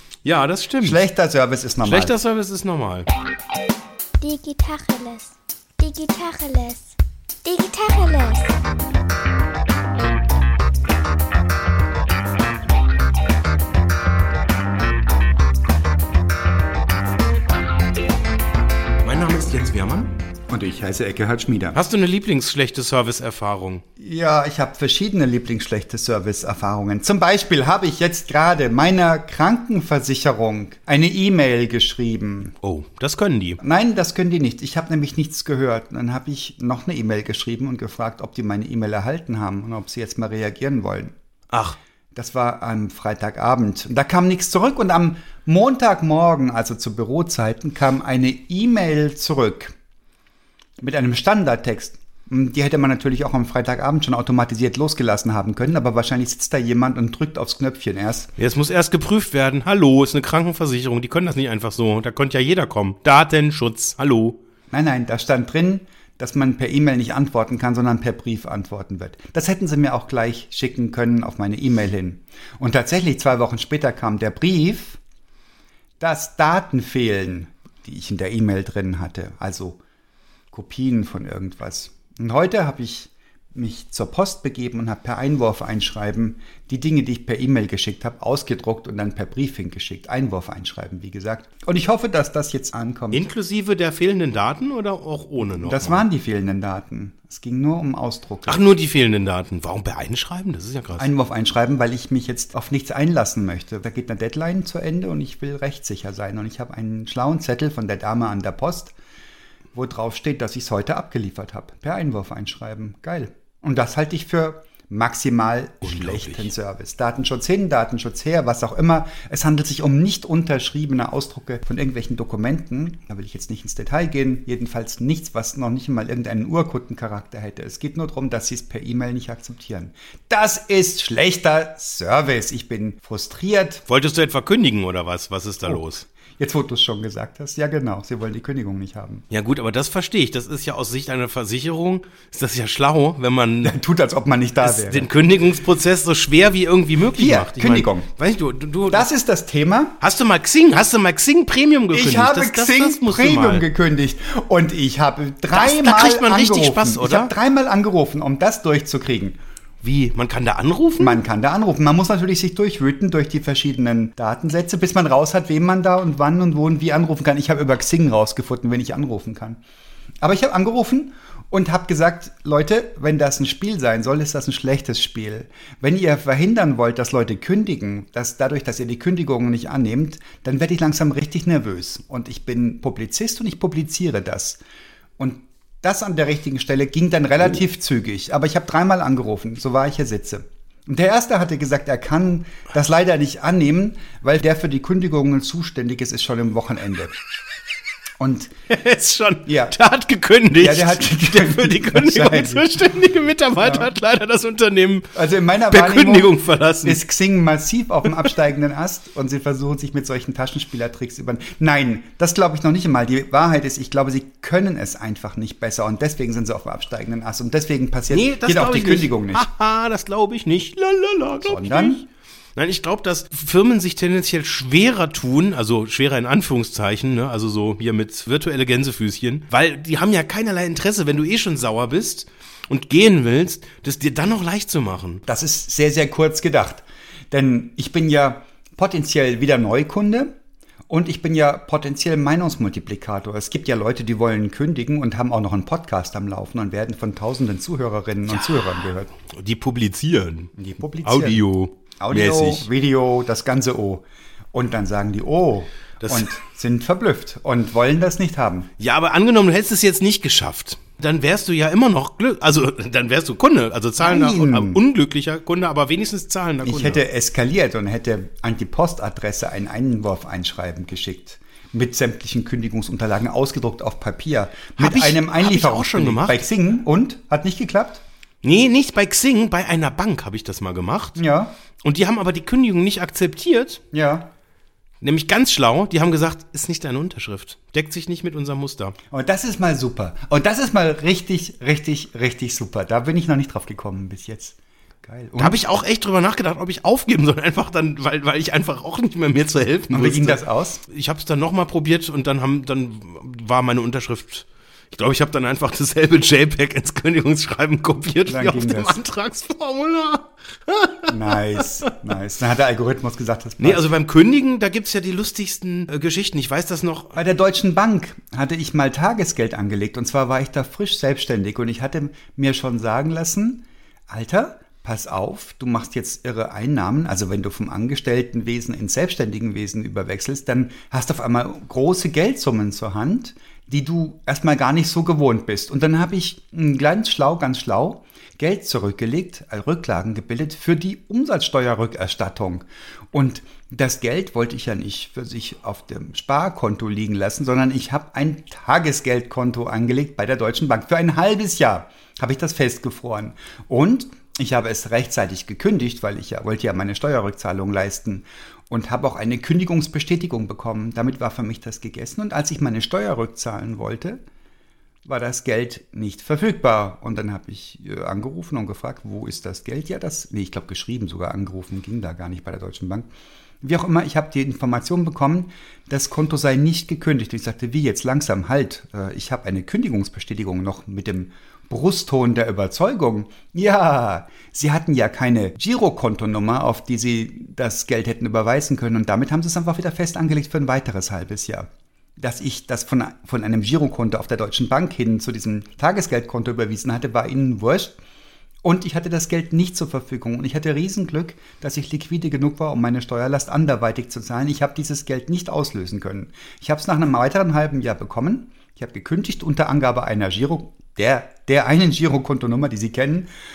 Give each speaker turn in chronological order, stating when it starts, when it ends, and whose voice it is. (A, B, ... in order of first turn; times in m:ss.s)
0:00.2-0:01.0 A
0:00.8-0:02.1 B
0:01.8-0:03.1 A
0:04.2-0:08.6 C
0:19.0-0:20.1 A
0:20.5-0:21.8 B
0:21.7-0:23.8 A
0:24.0-0:32.6 B
0:32.6-0:33.6 A
0:33.6-0:41.1 B
0:41.5-0:41.8 A
0:42.1-0:49.8 B
0:50.8-0:58.3 B
0:58.4-1:04.4 A
1:04.7-1:15.0 B
1:16.0-1:19.8 B
1:20.5-1:33.2 B
1:33.1-1:36.1 A
1:35.6-1:38.6 B
1:38.5-1:41.1 A
1:41.0-1:48.9 B
1:49.7-2:13.8 B
1:55.8-1:56.5 A
2:13.9-2:16.1 A
2:16.4-2:19.3 B
2:19.3-2:23.8 A
2:23.6-2:25.1 B
2:24.6-2:29.1 A
2:27.1-2:28.1 B
2:28.9-2:30.0 B
2:30.0-2:33.7 A
2:31.9-2:39.4 B
2:35.5-2:37.3 A
2:39.8-2:41.2 A
2:41.0-2:49.6 B
2:50.2-3:04.6 B
3:05.2-3:17.2 B
3:18.2-3:18.5 B
3:18.7-3:25.2 A
3:19.5-3:19.7 B
3:20.6-3:22.7 B
3:23.6-3:23.9 B
3:25.2-3:39.5 B
3:25.7-3:27.0 A
3:38.1-3:55.2 A
3:41.3-3:42.0 B
3:55.3-4:00.3 B
4:00.9-4:09.1 B
4:08.3-4:10.5 A
4:10.6-4:11.4 B
4:11.0-4:12.7 A
4:12.0-4:18.7 B
4:16.0-4:16.3 A
4:18.8-4:27.0 A
4:24.0-4:24.8 B
4:26.6-4:38.0 B
4:34.8-4:36.5 A
4:38.4-4:41.2 A
4:41.2-4:41.5 B
4:41.8-4:43.8 A
4:43.9-4:44.3 B
4:45.0-4:49.0 A
4:49.1-4:55.6 B
4:55.4-5:11.6 A
4:59.9-5:00.8 B
5:08.3-5:09.0 B
5:11.1-5:13.9 B
5:13.6-5:17.2 A
5:17.2-6:04.2 B
6:05.0-6:13.1 B
6:13.6-6:31.7 B
6:32.2-6:38.0 B
6:38.6-6:53.3 B